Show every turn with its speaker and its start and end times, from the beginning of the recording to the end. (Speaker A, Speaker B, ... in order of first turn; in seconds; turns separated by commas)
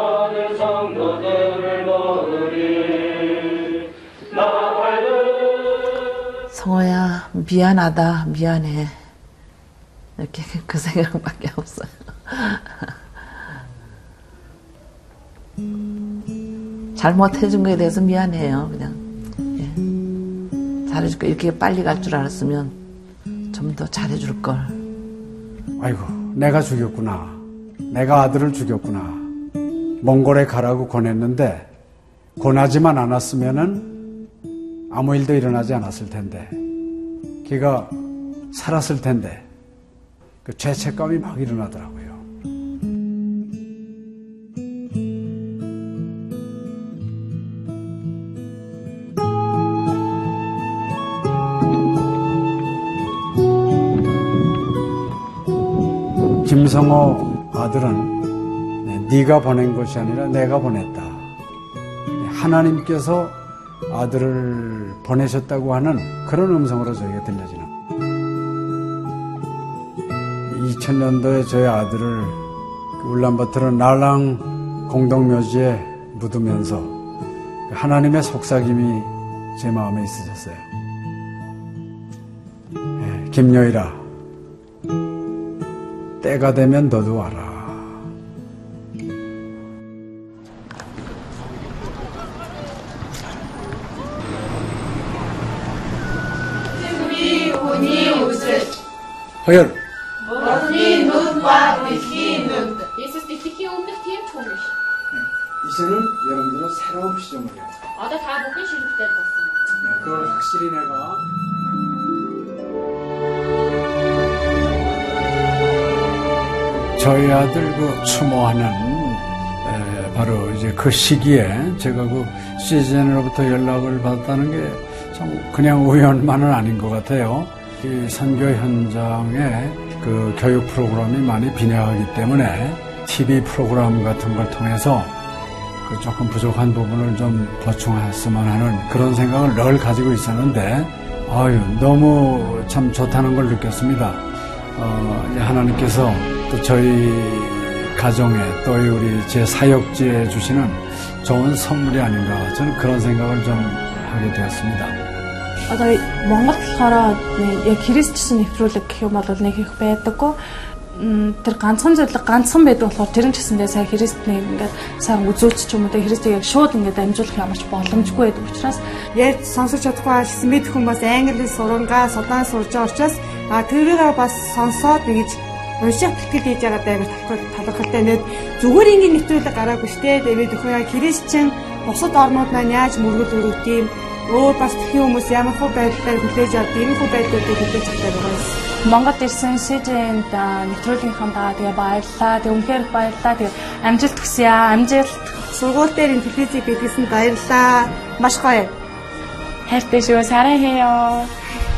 Speaker A: 6.5-9.1, Speaker A: 10.2-13.0, Speaker A: 16.9-19.0, Speaker A: 19.6-19.8, Speaker A: 20.9-22.8, Speaker A: 23.5-24.8, Speaker B: 25.8-29.3, Speaker B: 30.0-31.7, Speaker B: 32.4-34.0, Speaker B: 34.9-36.6, Speaker B: 37.4-38.0, Speaker B: 38.5-39.5, Speaker B: 40.4-42.2, Speaker B: 56.4-58.2, Speaker B: 58.8-61.3, Speaker B: 62.2-67.7, Speaker B: 70.5-72.4, Speaker B: 73.0-77.0, Speaker B: 77.7-80.7, Speaker B: 83.0-84.0, Speaker B: 86.2-88.0, Speaker B: 99.4-99.8, Speaker C: 100.8-104.8, Speaker B: 105.1-107.8, Speaker C: 108.0-110.3, Speaker B: 109.8-111.2, Speaker B: 116.7-135.2, Speaker B: 135.8-155.1, Speaker D: 155.7-160.4, Speaker D: 160.9-168.8, Speaker E: 169.2-188.6, Speaker D: 188.8-195.4, Speaker E: 195.5-198.7, Speaker D: 199.7-201.3